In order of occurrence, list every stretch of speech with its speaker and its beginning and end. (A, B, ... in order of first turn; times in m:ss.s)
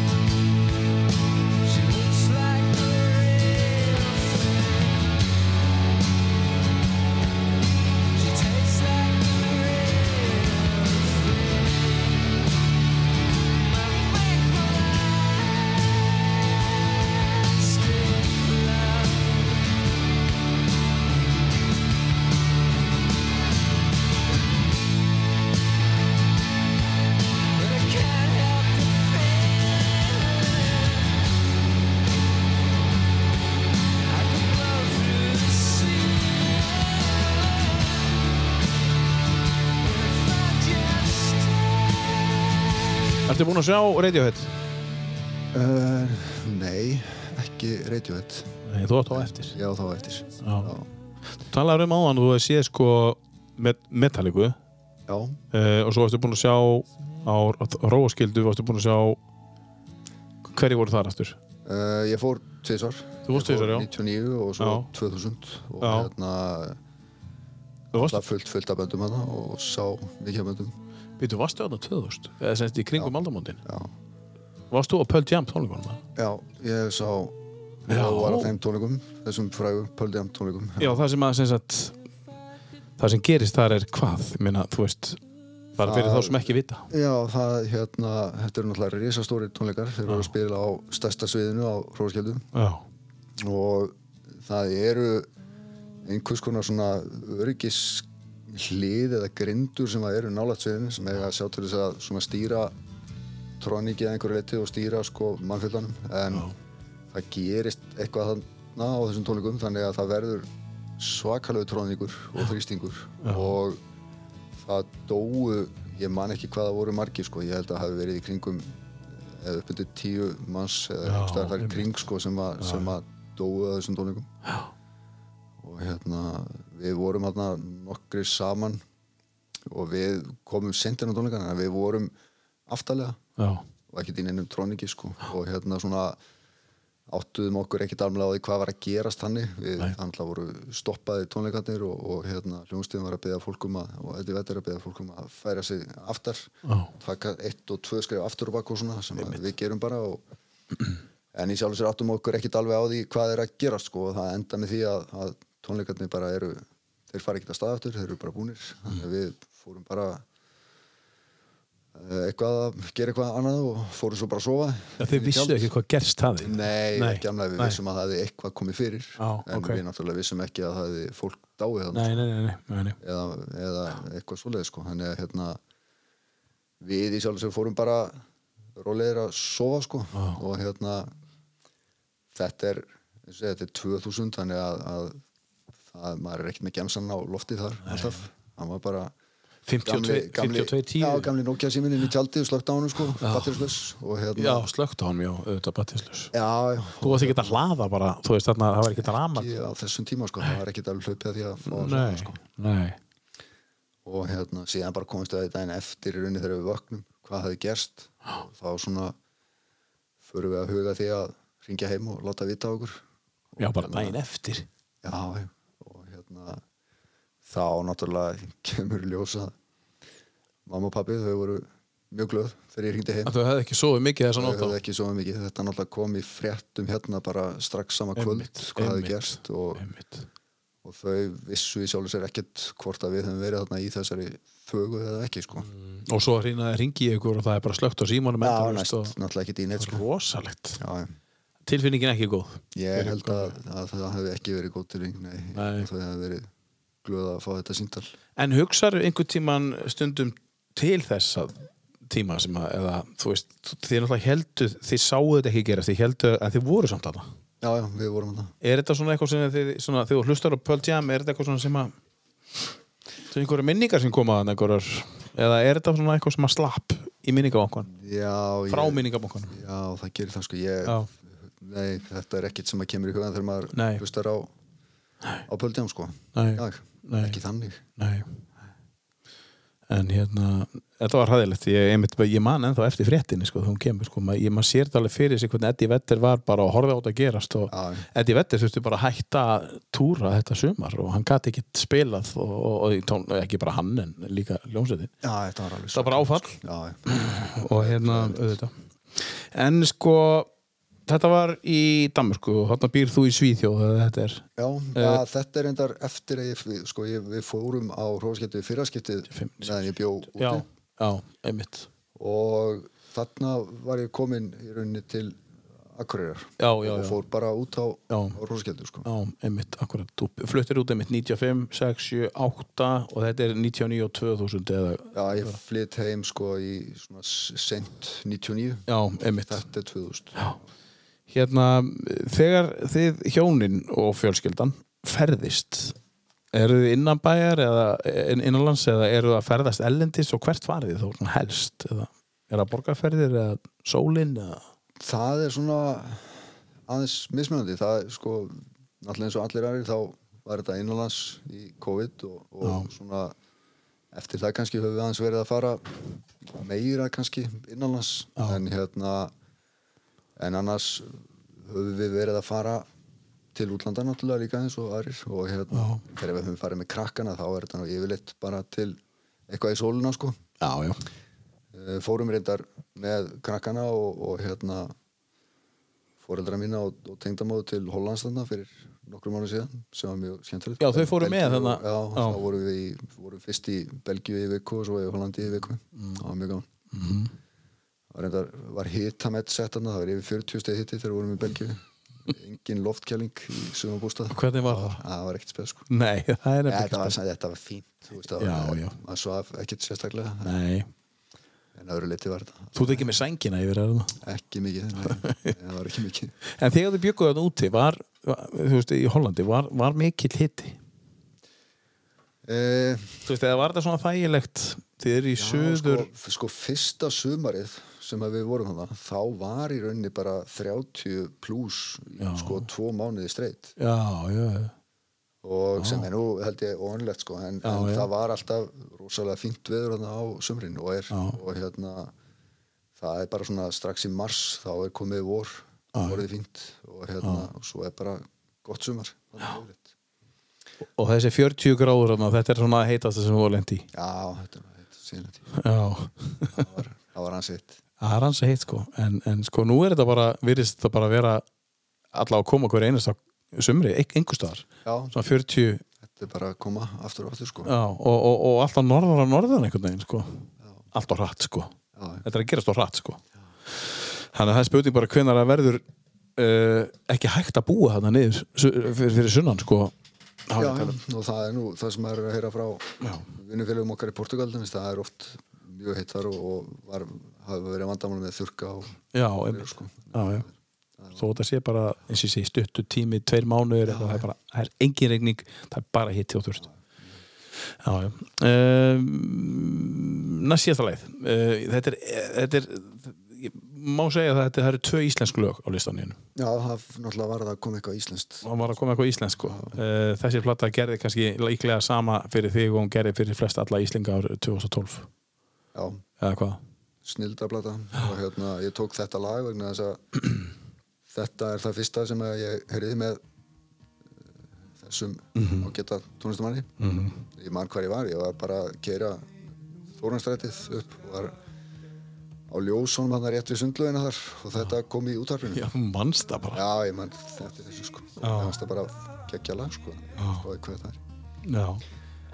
0:01.6-0:05.1 A
0:08.1-0:12.3 A
0:13.5-0:15.9 A
0:17.2-0:19.7 A
0:27.6-0:31.1 A
0:34.0-0:38.1 A
0:39.8-0:41.6 A
0:43.3-0:44.5 B
0:45.5-0:48.5 C
0:48.6-0:49.6 B
0:49.1-0:50.9 C
0:50.4-0:50.7 B
0:51.5-0:54.6 B
0:55.1-0:55.4 C
0:55.5-0:59.2 B
1:00.4-1:01.4 B
1:01.6-1:06.8 C
1:03.2-1:03.9 B
1:04.6-1:04.9 B
1:05.8-1:06.1 B
1:07.9-1:08.2 B
1:08.0-1:10.8 C
1:11.2-1:13.6 B
1:13.0-1:13.9 C
1:14.7-1:16.0 B
1:16.1-1:21.0 C
1:17.9-1:18.6 B
1:20.8-1:22.0 B
1:23.0-1:25.2 B
1:25.8-1:26.9 B
1:25.8-1:32.4 C
1:30.1-1:30.3 B
1:32.5-1:32.8 B
1:33.4-1:35.3 C
1:36.0-1:42.7 C
1:43.6-1:46.5 C
1:47.1-1:53.8 C
1:53.2-1:53.5 B
1:54.6-2:04.3 C
2:01.0-2:01.9 B
2:02.6-2:02.9 B
2:05.6-2:08.8 C
2:09.7-2:12.1 C
2:12.7-2:13.2 C
2:13.4-2:13.6 B
2:13.9-2:16.2 C
2:17.1-2:30.2 C
2:26.6-2:26.9 B
2:31.3-2:40.2 C
2:41.9-2:45.7 C
2:45.0-2:47.8 B
2:46.4-2:52.2 C
2:49.2-2:49.8 B
2:51.9-2:53.0 B
2:53.0-2:55.6 C
2:56.8-2:58.2 C
2:58.8-3:01.1 C
3:00.1-3:00.4 B
3:02.3-3:05.2 C
3:05.9-3:09.1 C
3:07.8-3:08.2 B
3:09.6-3:11.3 B
3:09.8-3:14.7 C
3:13.2-3:13.7 B
3:14.4-3:16.3 B
3:16.3-3:17.6 C
3:17.0-3:19.5 B
3:19.0-3:22.4 C
3:21.7-3:23.0 B
3:24.0-3:29.2 C
3:30.2-3:34.2 C
3:33.6-3:34.6 B
3:35.0-3:36.6 C
3:37.4-3:39.5 C
3:40.6-3:43.3 C
3:43.2-3:44.8 B
3:44.4-3:49.8 C
3:48.1-3:50.2 B
3:50.8-3:55.7 C
3:55.6-3:59.1 B
3:58.4-4:00.0 C
3:59.8-4:00.8 B
4:00.8-4:01.1 C
4:01.6-4:03.6 B
4:02.7-4:06.5 C
4:05.5-4:05.9 B
4:07.0-4:08.1 C
4:08.4-4:17.2 B
4:17.6-4:18.5 C
4:18.6-4:21.9 B
4:23.3-4:27.9 B
4:27.9-4:34.5 C
4:28.7-4:29.6 B
4:33.7-4:34.0 B
4:35.5-4:37.8 C
4:36.3-4:37.4 B
4:38.0-4:38.4 B
4:39.9-4:55.1 B
4:47.7-4:48.1 C
4:55.2-4:58.5 C
4:55.9-4:56.6 B
4:57.1-5:00.5 B
5:01.1-5:05.2 B
5:04.6-5:10.6 C
5:09.3-5:11.9 B
5:12.2-5:15.4 C
5:15.9-5:19.1 C
5:16.6-5:17.2 B
5:18.1-5:18.4 B
5:19.0-5:25.6 B
5:25.1-5:28.8 C
5:28.9-5:29.6 B
5:29.5-5:30.5 C
5:31.3-5:35.9 B
5:36.5-5:44.6 B
5:45.0-5:53.3 C
5:52.6-5:52.9 B
5:54.1-5:59.3 C
6:00.4-6:02.9 C
6:03.5-6:10.4 C
6:05.7-6:06.0 B
6:10.6-6:11.0 B
6:11.7-6:14.9 C
6:16.2-6:26.7 C
6:20.8-6:22.4 B
6:25.9-6:26.2 B
6:26.9-6:27.3 B
6:28.1-6:35.9 C
6:34.3-6:35.0 B
6:35.9-6:37.2 B
6:36.6-6:40.5 C
6:38.4-6:39.0 B
6:40.4-6:40.9 B
6:41.7-6:43.1 C
6:42.7-6:44.1 B
6:44.2-6:46.3 C
6:45.1-6:45.5 B
6:46.5-6:50.8 B
6:52.4-6:53.3 C
6:53.2-6:56.1 B
6:55.4-7:03.8 C
7:02.2-7:02.6 B
7:03.8-7:04.7 B
7:05.4-7:12.1 C
7:05.8-7:06.1 B
7:07.6-7:08.1 B
7:11.1-7:11.4 B
7:13.0-7:19.9 C
7:15.9-7:16.2 B
7:21.0-7:23.9 B
7:23.9-7:25.5 C
7:25.5-7:26.6 B
7:26.5-7:27.8 C
7:28.0-7:31.4 B
7:32.1-7:35.8 B
7:34.8-7:35.1 C
7:36.0-7:37.7 C
7:37.6-7:43.2 B
7:41.9-7:42.2 C
7:43.8-7:45.8 B
7:46.4-7:49.9 B
7:50.5-7:51.0 B
7:50.6-8:01.2 C
7:53.0-7:53.3 B
7:59.1-8:00.5 B
8:01.1-8:06.6 B
8:03.9-8:04.2 C
8:07.8-8:16.2 B
8:16.4-8:18.5 C
8:18.4-8:25.1 B
8:19.5-8:19.8 C
8:25.7-8:26.0 C
8:26.2-8:26.6 B
8:27.0-8:30.5 C
8:31.1-8:33.2 C
8:34.8-8:36.7 C
8:35.4-8:35.7 B
8:36.8-8:37.2 B
8:37.3-8:39.4 C
8:39.9-8:41.4 C
8:42.5-8:45.7 C
8:45.5-8:46.6 B
8:46.5-8:51.0 C
8:48.2-8:48.6 B
8:50.2-8:50.4 B
8:51.4-8:51.8 B